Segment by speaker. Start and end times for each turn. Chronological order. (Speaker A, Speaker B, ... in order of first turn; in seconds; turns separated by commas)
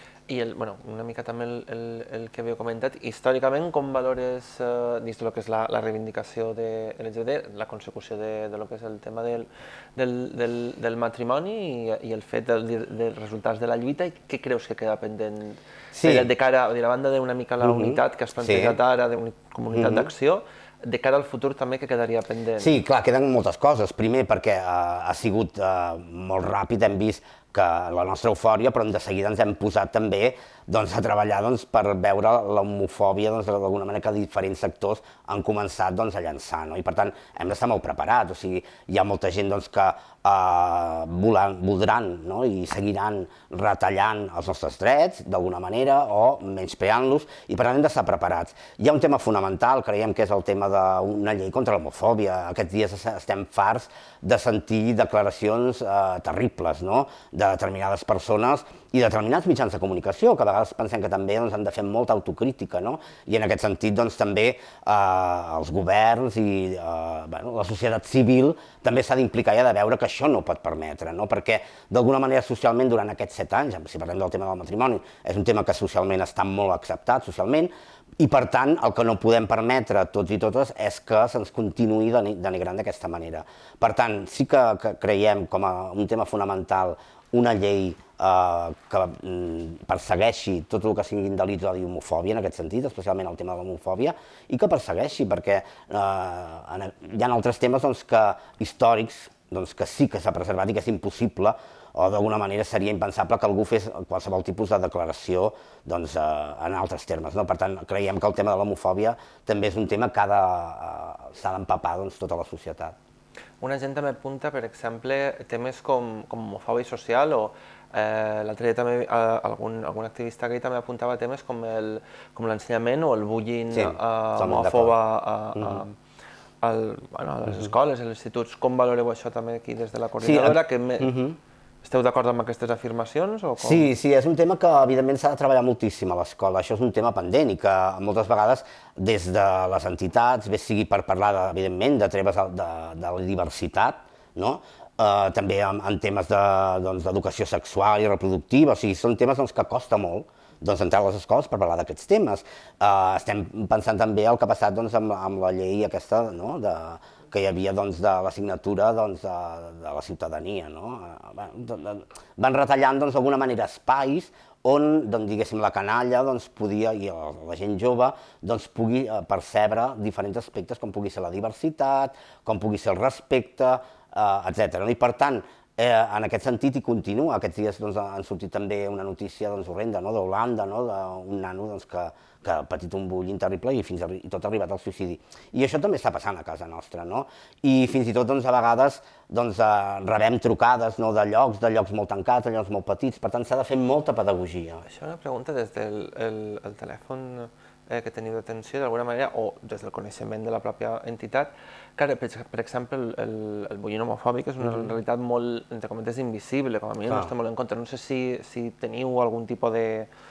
Speaker A: 0.3-22.8, Speaker B: 15.9-16.3, Speaker B: 17.6-18.8, Speaker B: 19.7-20.1, Speaker B: 22.6-112.9, Speaker A: 113.6-125.9, Speaker B: 123.7-124.9, Speaker B: 125.5-125.8, Speaker A: 126.6-131.2, Speaker B: 130.2-131.4, Speaker A: 131.8-133.9, Speaker B: 133.6-194.8, Speaker A: 194.9-210.1, Speaker B: 204.6-204.9